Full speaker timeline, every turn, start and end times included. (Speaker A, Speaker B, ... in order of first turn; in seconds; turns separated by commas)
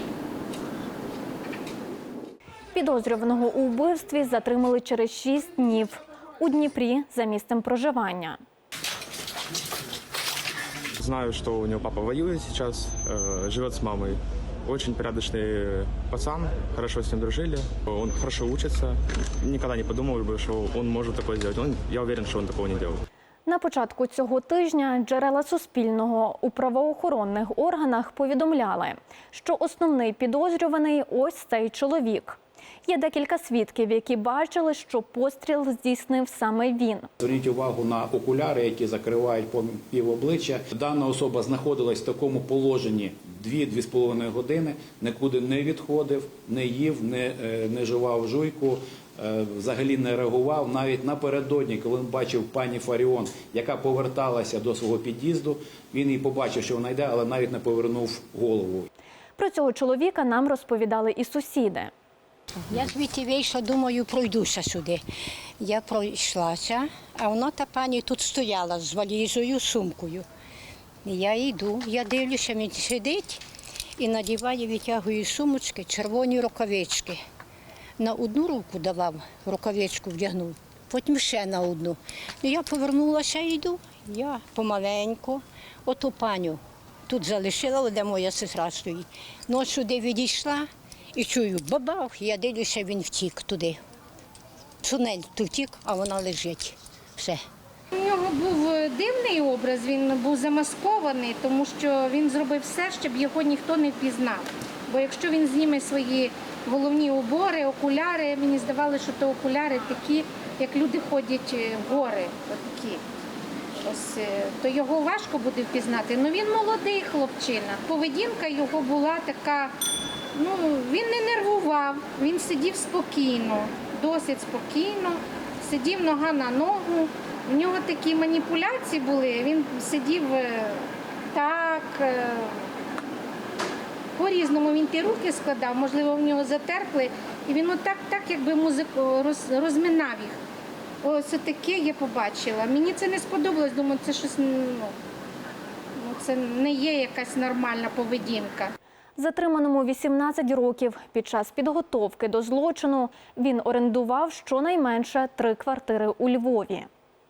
Speaker A: 2.7-8.4, Speaker B: 10.9-23.0, Speaker A: 23.4-37.1, Speaker C: 37.2-58.9, Speaker A: 59.4-61.9, Speaker D: 62.7-65.0, Speaker D: 65.6-70.2, Speaker D: 71.0-73.4, Speaker D: 74.0-77.2, Speaker D: 78.0-93.8, Speaker D: 94.8-97.4, Speaker E: 97.9-113.0, Speaker E: 113.8-119.8, Speaker E: 120.3-132.7, Speaker E: 134.2-140.4, Speaker E: 141.0-145.0, Speaker E: 145.9-148.7, Speaker A: 149.2-156.9